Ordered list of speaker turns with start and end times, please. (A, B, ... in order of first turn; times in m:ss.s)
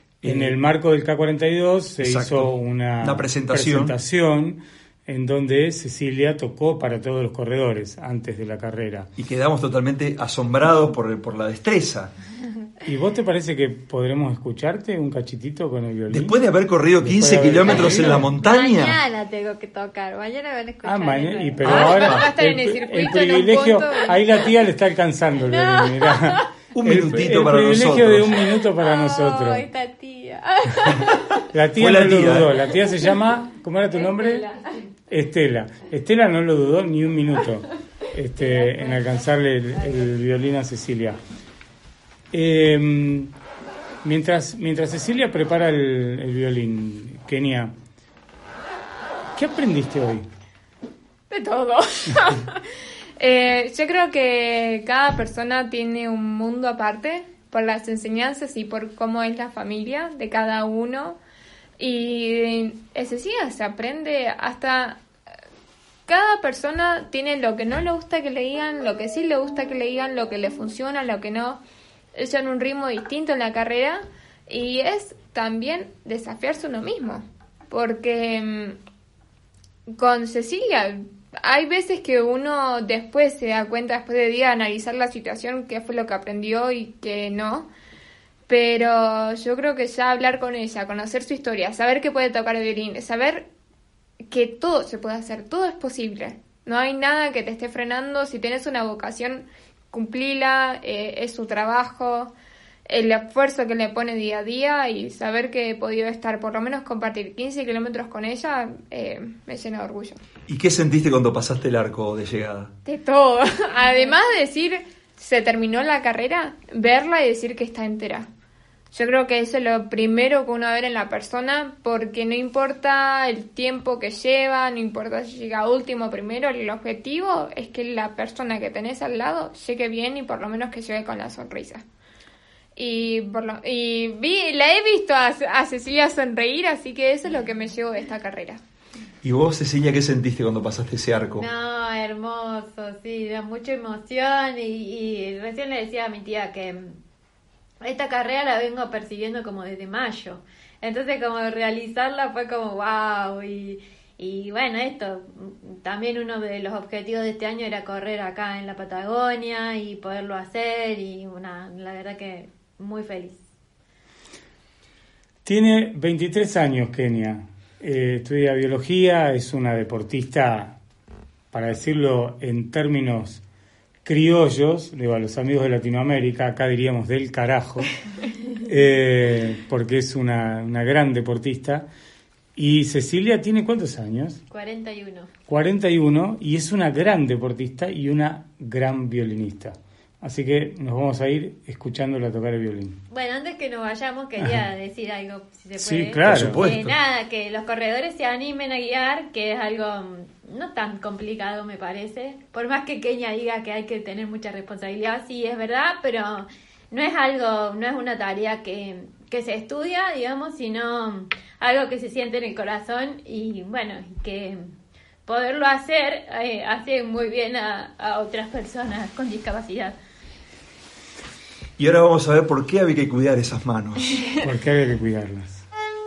0:00.2-0:00.6 A
0:00.2-0:09.1 B
0:02.0-0:03.9 A
0:09.2-0:12.1 A
0:12.8-0:16.4 B
0:16.1-0:19.0 A
0:17.0-0:18.3 B
0:17.6-0:22.1 C
0:20.8-0:29.6 B
0:21.6-0:22.3 A
0:21.6-0:24.2 D
0:25.4-0:26.5 C
0:26.7-0:28.4 A
0:28.8-0:31.3 C
0:31.5-0:34.4 B
0:31.7-0:32.6 A
0:33.9-0:34.9 C
0:35.1-0:41.2 B
0:38.4-0:39.2 C
0:39.7-0:40.1 C
0:42.3-0:43.3 B
0:44.0-0:47.7 B
0:49.4-0:50.3 B
0:51.3-0:52.6 D
0:53.2-1:01.2 D
1:01.8-1:05.0 D
1:06.1-1:11.6 D
1:12.1-1:18.8 D
1:19.9-1:27.7 D
1:28.5-1:33.5 D
1:34.3-1:42.3 D
1:42.8-1:50.2 D
1:50.5-1:52.7 A
1:52.8-1:58.3 D
1:58.9-2:11.8 D
2:12.8-2:18.6 D
2:19.2-2:21.5 A
2:21.4-2:27.0 C
2:27.8-2:43.4 C
2:45.4-2:50.8 B
2:51.5-2:53.4 B
2:54.0-2:57.9 B
2:58.6-3:01.9 B
3:02.6-3:04.4 B
3:04.5-3:05.3 C
3:05.5-3:13.0 B
3:13.1-3:34.6 C
3:15.8-3:16.6 B
3:16.2-3:16.9 A
3:35.2-3:40.0 C
3:41.8-3:44.0 A
3:44.4-3:45.6 B